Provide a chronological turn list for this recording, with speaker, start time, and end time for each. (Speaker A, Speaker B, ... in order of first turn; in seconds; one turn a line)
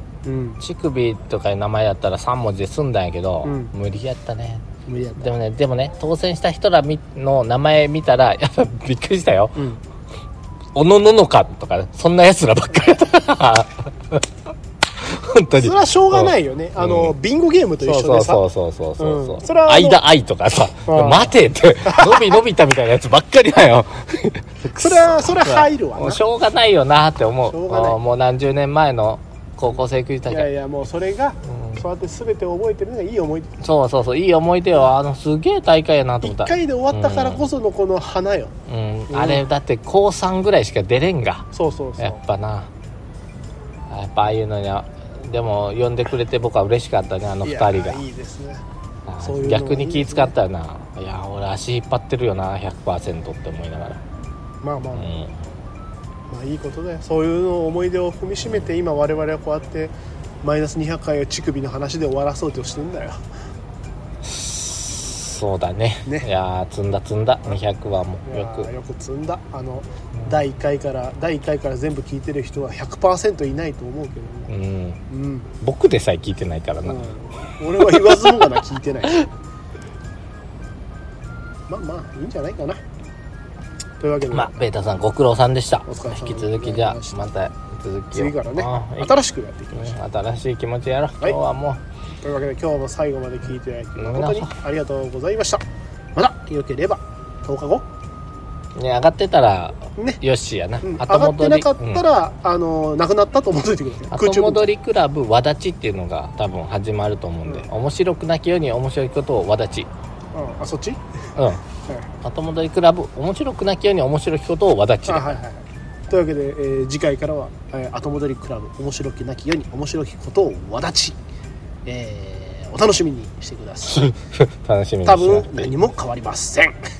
Speaker A: 0.2-0.6
Speaker B: 0.6-4.7
Speaker A: 3.4-3.7
Speaker A: 4.9-5.3
Speaker B: 5.2-9.6
Speaker B: 10.7-14.2
Speaker B: 15.0-17.1
Speaker A: 15.5-18.4
Speaker B: 17.8-30.5
Speaker A: 19.0-20.0
Speaker A: 20.9-21.3
Speaker A: 21.8-22.4
Speaker A: 24.8-26.2
Speaker A: 27.5-28.0
Speaker A: 30.3-33.6
Speaker B: 31.5-31.8
Speaker B: 33.6-37.4
Speaker A: 36.2-38.5
Speaker B: 38.7-41.5
Speaker A: 39.1-39.4
Speaker A: 41.5-42.2
Speaker B: 42.0-42.7
Speaker B: 43.9-48.0
Speaker A: 47.4-48.6
Speaker B: 49.1-54.0
Speaker A: 49.2-50.3
Speaker A: 54.6-55.2
Speaker B: 54.9-55.4
Speaker A: 56.3-63.2
Speaker B: 64.2-68.7
Speaker A: 68.2-74.5
Speaker B: 74.5-75.0
Speaker A: 75.1-75.5
Speaker B: 75.6-77.1
Speaker A: 76.8-79.2
Speaker A: 81.7-82.8
Speaker A: 84.0-84.5
Speaker B: 84.3-89.1
Speaker A: 85.8-87.3
Speaker A: 88.1-90.0
Speaker B: 89.8-91.8
Speaker A: 92.2-95.6
Speaker B: 94.0-94.5
Speaker A: 96.1-97.8
Speaker B: 98.8-102.0
Speaker A: 100.8-104.7
Speaker B: 104.1-109.9
Speaker A: 110.3-111.0
Speaker B: 111.3-111.6
Speaker A: 111.8-112.1
Speaker B: 112.2-115.4
Speaker A: 115.1-121.2
Speaker A: 121.8-124.1
Speaker B: 123.8-125.7
Speaker A: 125.0-126.8